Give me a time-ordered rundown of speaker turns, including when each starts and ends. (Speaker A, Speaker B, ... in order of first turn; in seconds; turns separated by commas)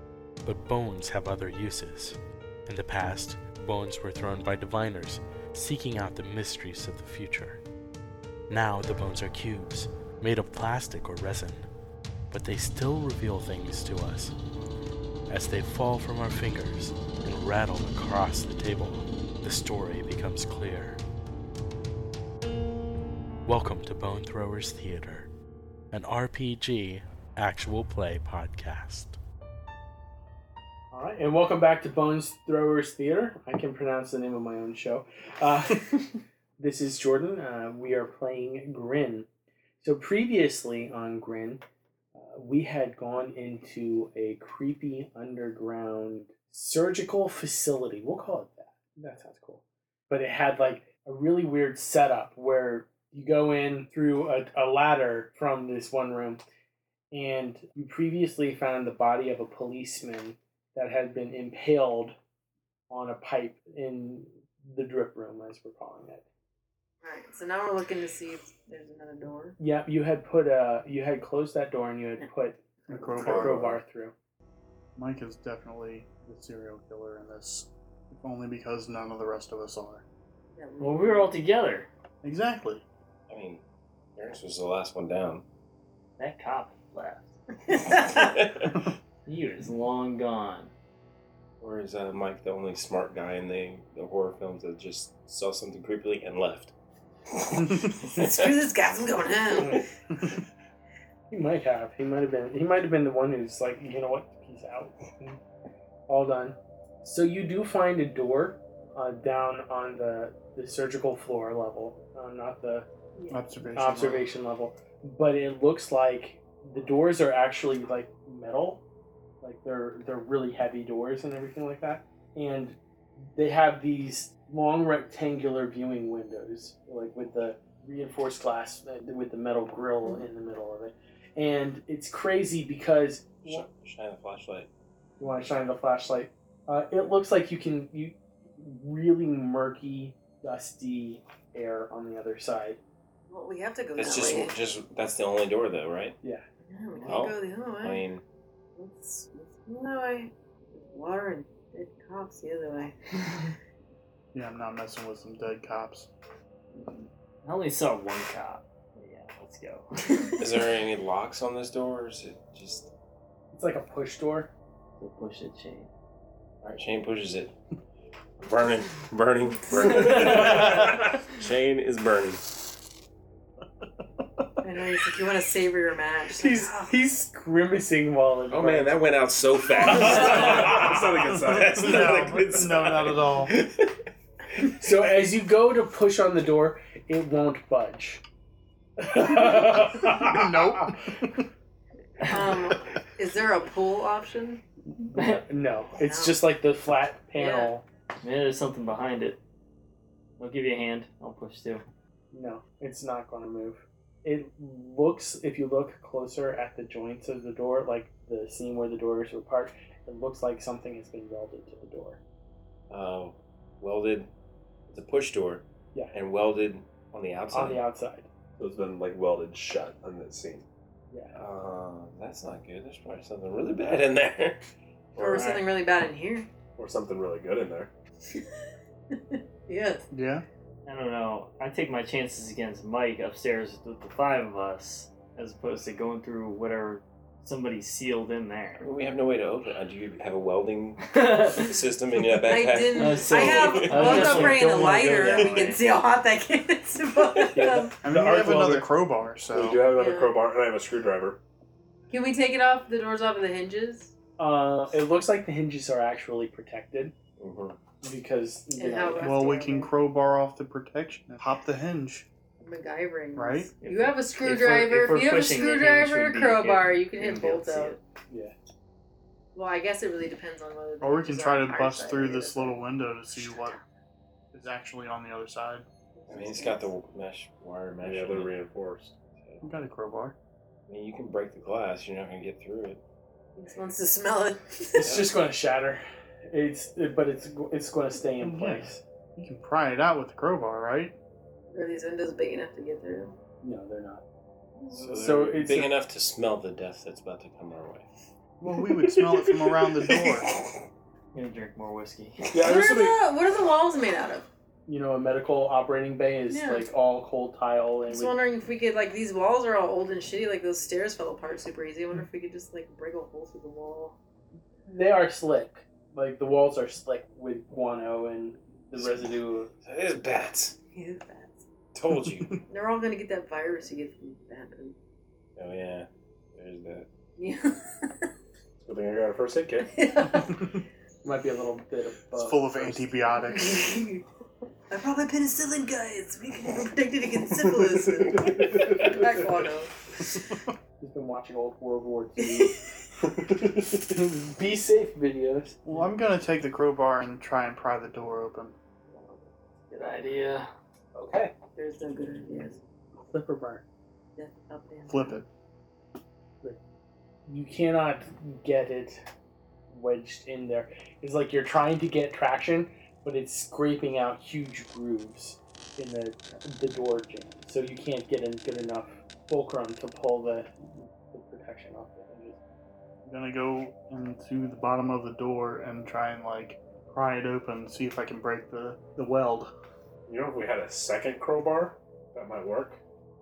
Speaker A: 0.4-7.6, Speaker A: 8.5-11.7, Speaker A: 12.3-14.3, Speaker A: 15.3-21.0, Speaker A: 23.5-25.3, Speaker A: 25.9-29.2, Speaker B: 30.9-39.3, Speaker B: 39.8-41.6, Speaker B: 42.1-56.4, Speaker B: 57.1-62.2, Speaker B: 62.9-66.2, Speaker C: 67.0-69.6, Speaker B: 69.6-72.6, Speaker D: 72.9-73.8, Speaker B: 73.1-74.2, Speaker D: 75.0-80.0, Speaker C: 80.6-81.4, Speaker E: 80.8-81.9, Speaker D: 82.2-82.8, Speaker F: 83.3-83.6, Speaker F: 84.2-85.4, Speaker E: 86.2-87.3, Speaker F: 87.9-88.7, Speaker E: 89.3-90.7, Speaker F: 91.6-96.7, Speaker F: 97.3-98.6, Speaker C: 98.0-99.8, Speaker B: 101.3-105.4, Speaker B: 106.1-112.9, Speaker D: 113.3-114.3, Speaker B: 113.8-118.8, Speaker B: 119.4-133.7, Speaker F: 133.4-134.7, Speaker B: 135.2-142.8, Speaker C: 143.3-144.6, Speaker F: 144.0-146.2, Speaker C: 146.7-148.1, Speaker F: 147.1-148.2, Speaker C: 148.8-153.0, Speaker D: 154.3-156.1, Speaker E: 156.7-160.7, Speaker F: 160.4-162.9, Speaker B: 163.5-164.5, Speaker E: 165.0-165.9, Speaker F: 166.6-167.6, Speaker F: 168.4-172.6, Speaker E: 169.9-170.6, Speaker C: 174.6-176.9, Speaker B: 176.4-179.0, Speaker F: 178.5-183.9, Speaker G: 179.9-183.1, Speaker D: 181.5-183.5, Speaker B: 184.6-188.2, Speaker B: 189.0-191.0, Speaker D: 190.0-191.4, Speaker C: 192.2-194.6, Speaker B: 195.1-197.8, Speaker E: 195.1-195.4, Speaker C: 196.0-196.4, Speaker C: 197.4-197.7, Speaker E: 198.2-199.4, Speaker E: 200.4-201.8, Speaker B: 202.3-212.2, Speaker F: 212.9-214.3, Speaker F: 214.9-217.8, Speaker B: 217.5-218.3, Speaker G: 218.6-220.7, Speaker B: 221.1-221.4, Speaker F: 221.3-224.6, Speaker F: 225.2-225.6, Speaker C: 225.2-226.5, Speaker E: 225.3-225.6, Speaker G: 226.8-227.9, Speaker C: 229.1-230.1, Speaker D: 230.1-230.5, Speaker E: 230.8-238.9, Speaker F: 238.8-244.6, Speaker E: 241.1-241.7, Speaker C: 242.4-248.0, Speaker E: 242.9-245.8, Speaker B: 244.0-244.5, Speaker B: 247.5-248.9, Speaker D: 248.0-249.9, Speaker G: 249.5-251.4, Speaker C: 249.9-250.4, Speaker C: 252.1-254.1, Speaker B: 254.4-257.1, Speaker F: 257.4-257.8, Speaker B: 258.0-259.5, Speaker C: 258.8-259.9, Speaker D: 259.2-262.3, Speaker C: 262.6-268.0, Speaker D: 263.4-263.7, Speaker E: 263.8-268.0, Speaker C: 269.5-273.8, Speaker D: 271.0-273.8, Speaker D: 274.5-275.9, Speaker C: 276.2-276.9, Speaker F: 276.3-278.6, Speaker G: 278.0-279.2, Speaker F: 279.4-279.7, Speaker D: 279.6-280.4, Speaker F: 280.9-283.0, Speaker C: 283.6-285.2, Speaker B: 285.0-289.0, Speaker F: 285.0-285.3, Speaker D: 288.4-291.1, Speaker C: 291.7-293.4, Speaker B: 293.6-294.2, Speaker C: 294.8-295.1, Speaker F: 294.9-298.1, Speaker B: 295.1-295.9, Speaker D: 298.6-300.6, Speaker E: 301.3-302.5, Speaker G: 302.5-303.2, Speaker C: 302.5-304.5, Speaker B: 304.9-308.4, Speaker C: 306.5-306.8, Speaker C: 308.1-314.2, Speaker B: 314.9-319.7, Speaker F: 318.9-320.8, Speaker C: 320.9-321.6, Speaker F: 321.9-322.6, Speaker C: 322.7-325.0, Speaker F: 325.6-327.1, Speaker C: 327.4-328.3, Speaker G: 328.8-329.9, Speaker C: 329.9-330.7, Speaker B: 331.2-333.2, Speaker D: 332.3-333.9, Speaker C: 333.5-334.2, Speaker C: 334.9-339.9, Speaker G: 337.5-339.5, Speaker D: 340.3-340.6, Speaker B: 341.0-342.8, Speaker C: 342.4-342.9, Speaker G: 343.4-344.0, Speaker B: 344.0-345.8, Speaker D: 345.9-348.8, Speaker C: 349.1-349.5, Speaker E: 349.9-350.7, Speaker B: 351.1-351.5, Speaker C: 351.8-352.8, Speaker B: 353.3-353.8, Speaker C: 354.4-355.4, Speaker D: 355.1-355.5, Speaker B: 357.5-359.2, Speaker B: 359.9-372.6, Speaker D: 373.2-379.7, Speaker G: 380.3-383.0